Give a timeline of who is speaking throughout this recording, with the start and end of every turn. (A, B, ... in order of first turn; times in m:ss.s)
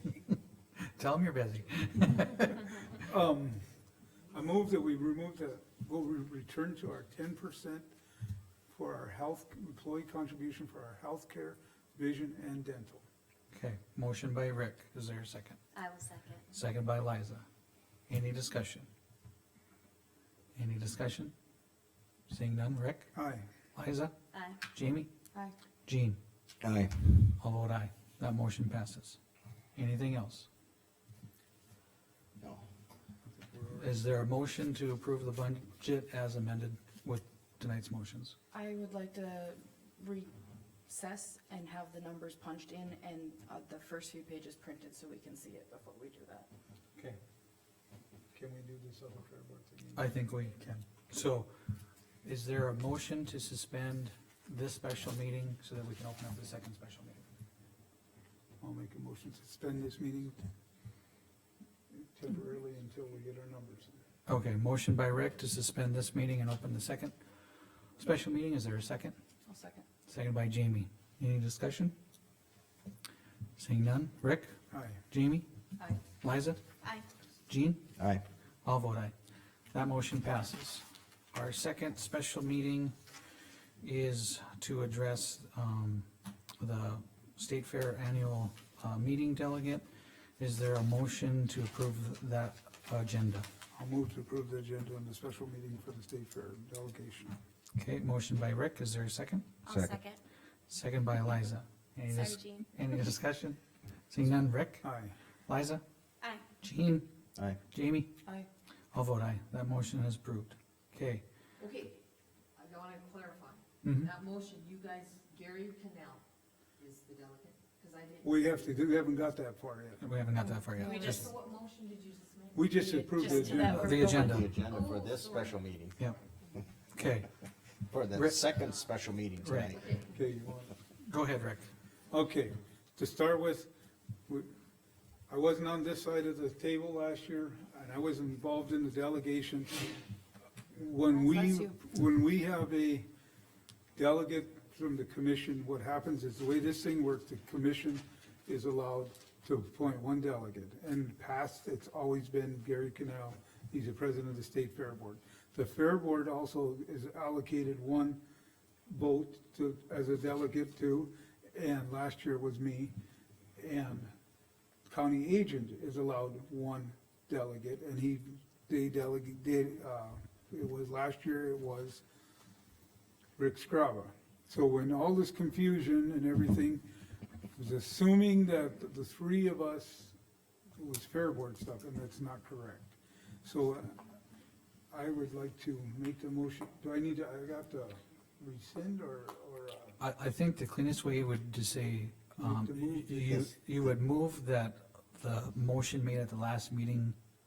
0:00.8-0:02.9 A
0:03.0-0:03.8 B
0:04.3-0:07.8 B
0:08.7-0:13.0 B
0:13.5-0:15.6 A
0:15.7-0:16.5 C
0:16.5-0:17.4 A
0:18.1-0:18.9 A
0:20.5-0:21.3 A
0:22.3-0:23.1 A
0:23.1-0:23.4 B
0:23.7-0:25.1 A
0:24.3-0:24.6 C
0:25.8-0:26.2 A
0:26.6-0:27.3 D
0:27.4-0:29.2 A
0:29.7-0:30.5 A
0:32.4-0:32.6 D
0:33.3-0:33.9 B
0:33.7-0:38.3 A
0:38.5-0:40.3 E
0:40.9-0:46.5 E
0:48.3-0:50.1 B
0:49.9-0:51.5 A
0:52.2-0:57.2 A
0:58.6-1:00.4 B
1:01.9-1:04.0 B
1:04.3-1:07.2 A
1:08.0-1:09.2 A
1:09.5-1:09.8 E
1:10.1-1:11.9 A
1:13.6-1:14.5 A
1:14.7-1:15.0 B
1:15.1-1:15.4 A
1:16.1-1:16.6 A
1:17.5-1:17.8 A
1:18.0-1:18.2 D
1:18.6-1:19.1 A
1:19.7-1:22.9 A
1:23.8-1:26.1 A
1:26.6-1:29.8 A
1:30.4-1:33.5 A
1:33.7-1:37.4 B
1:37.8-1:39.6 A
1:39.6-1:40.2 C
1:39.7-1:40.0 D
1:40.7-1:43.6 A
1:42.1-1:42.7 C
1:44.1-1:44.9 A
1:44.8-1:45.1 B
1:45.5-1:45.8 A
1:46.6-1:47.1 A
1:47.7-1:48.1 A
1:48.9-1:51.2 A
1:51.6-1:52.0 F
1:52.6-1:56.2 F
1:53.8-1:54.1 A
1:56.8-1:58.4 F
1:58.2-2:00.0 B
2:00.0-2:01.3 A
2:00.6-2:01.2 E
2:00.8-2:03.6 F
2:02.5-2:03.9 B
2:03.0-2:04.4 E
2:03.5-2:04.5 A
2:03.8-2:06.0 D
2:04.4-2:05.5 F
2:06.9-2:07.3 A
2:07.9-2:09.8 D
2:08.1-2:08.4 A
2:09.4-2:09.8 A
2:10.1-2:10.7 B
2:11.0-2:11.7 A
2:12.1-2:13.7 B
2:15.3-2:20.0 B
2:20.7-2:23.1 B
2:21.1-2:21.7 E
2:24.0-2:38.2 B
2:38.9-2:42.9 B
2:43.6-2:44.1 B
2:44.9-2:52.0 B
2:53.4-2:56.8 B
2:57.5-3:00.1 B
3:00.8-3:04.0 B
3:04.9-3:10.0 B
3:10.0-3:17.2 A
3:12.4-3:13.6 B